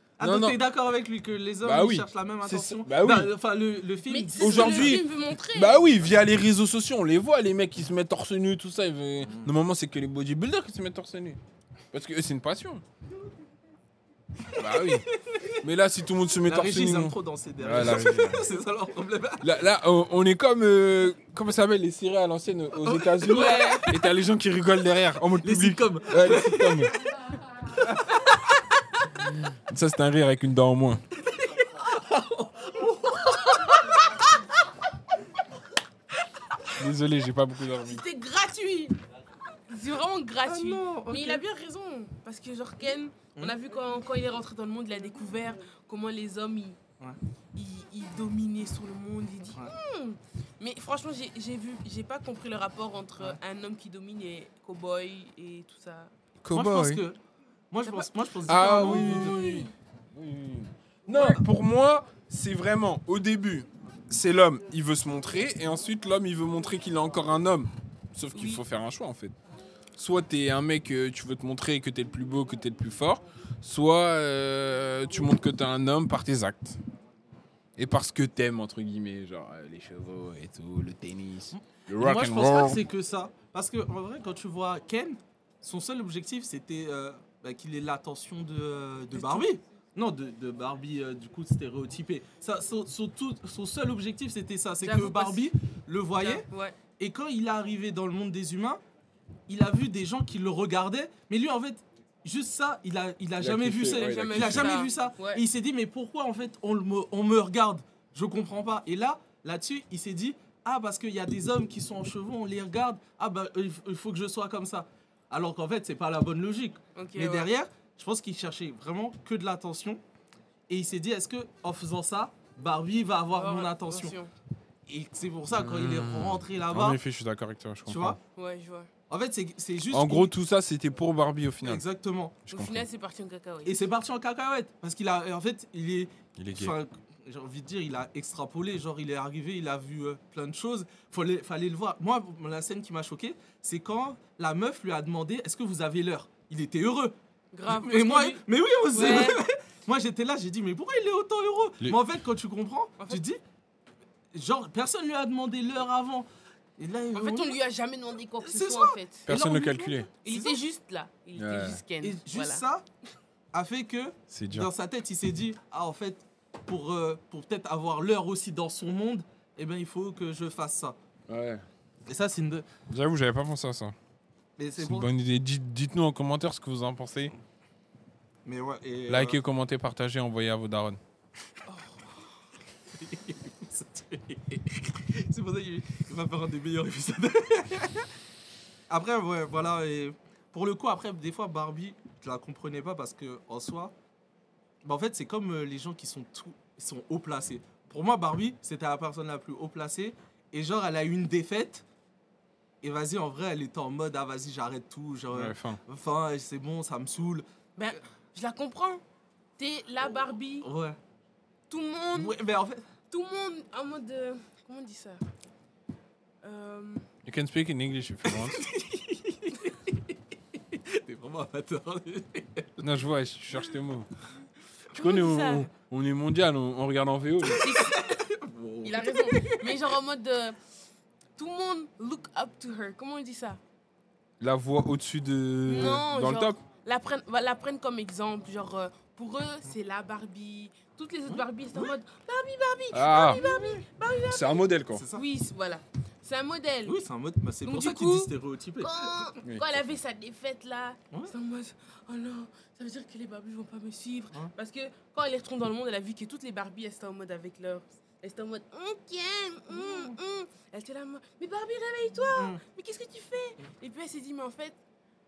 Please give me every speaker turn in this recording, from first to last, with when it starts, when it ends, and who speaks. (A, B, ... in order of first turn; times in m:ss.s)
0:00.2-0:05.0 A
0:00.2-0:00.6 B
0:01.6-0:03.3 B
0:04.1-0:05.8 C
0:04.4-0:11.4 B
0:09.2-0:09.5 A
0:11.9-0:12.8 B
0:14.6-0:18.5 B
0:15.3-0:15.6 A
0:16.4-0:19.6 A
0:19.4-0:27.0 B
0:22.8-0:24.0 A
0:23.2-0:23.9 C
0:25.4-0:27.0 A
0:27.8-0:28.6 A
0:29.4-0:31.0 B
0:31.3-0:34.6 A
0:36.8-0:38.0 B
0:37.8-0:39.0 C
0:39.7-0:46.8 C
0:40.5-0:41.4 A
0:47.6-0:56.1 C
0:56.4-0:57.0 B
0:56.5-0:57.2 A
0:57.7-0:59.6 A
0:57.8-0:59.7 C
0:58.5-1:09.4 B
1:01.1-1:01.4 A
1:08.3-1:08.6 C
1:10.0-1:16.8 B
1:17.8-1:22.8 B
1:21.5-1:36.5 A
1:29.1-1:29.5 C
1:34.8-1:35.5 C
1:36.2-1:36.8 C
1:37.0-1:38.8 A
1:39.5-2:00.0 A
1:43.4-1:44.8 B
1:43.9-1:45.4 C
1:57.0-1:57.5 C
2:00.7-2:04.2 A
2:03.3-2:04.3 C
2:04.9-2:07.0 A
2:05.5-2:08.2 B
2:07.9-2:08.2 A
2:08.4-2:08.9 C
2:09.1-2:10.3 A
2:09.9-2:11.8 B
2:11.6-2:12.4 A
2:12.5-2:12.9 B
2:12.5-2:13.9 C
2:13.6-2:27.2 A
2:16.4-2:16.8 B
2:27.5-2:29.4 C
2:27.7-2:33.4 A
2:34.3-2:36.3 A
2:36.8-2:37.6 A
2:37.1-2:42.6 C
2:38.4-2:40.6 A
2:39.3-2:40.1 B
2:41.4-2:41.8 B
2:42.0-2:42.8 A
2:43.5-2:51.0 A
2:44.3-2:44.7 B
2:51.3-2:51.7 B
2:52.1-2:52.7 A
2:52.9-2:54.0 B
2:54.6-2:55.1 A
2:54.8-2:57.3 B
2:58.4-2:59.4 A
2:59.1-3:01.0 B
3:01.7-3:02.2 C
3:02.9-3:08.1 A
3:08.9-3:13.9 A
3:14.8-3:21.8 A
3:22.8-3:27.4 A
3:25.3-3:25.8 B
3:27.8-3:29.0 C
3:29.6-3:30.7 C
3:30.6-3:31.0 A
3:31.7-3:32.4 C
3:32.1-3:32.8 A
3:33.1-3:35.2 C
3:36.4-3:37.1 C
3:37.2-3:38.6 B
3:38.3-3:40.2 A
3:40.7-3:43.0 A
3:42.8-3:44.1 B
3:44.9-3:45.7 C
3:45.0-3:47.7 B
3:47.5-3:49.9 A
3:47.6-3:48.1 C
3:48.8-3:50.6 C
3:51.4-3:53.6 C
3:54.4-3:56.6 B
3:55.7-4:07.0 C
4:01.3-4:02.0 A
4:02.9-4:03.4 B
4:03.3-4:03.8 A
4:04.3-4:05.0 B
4:04.9-4:05.3 A
4:06.9-4:09.3 A
4:07.6-4:24.8 C
4:19.7-4:20.2 A
4:22.4-4:22.6 A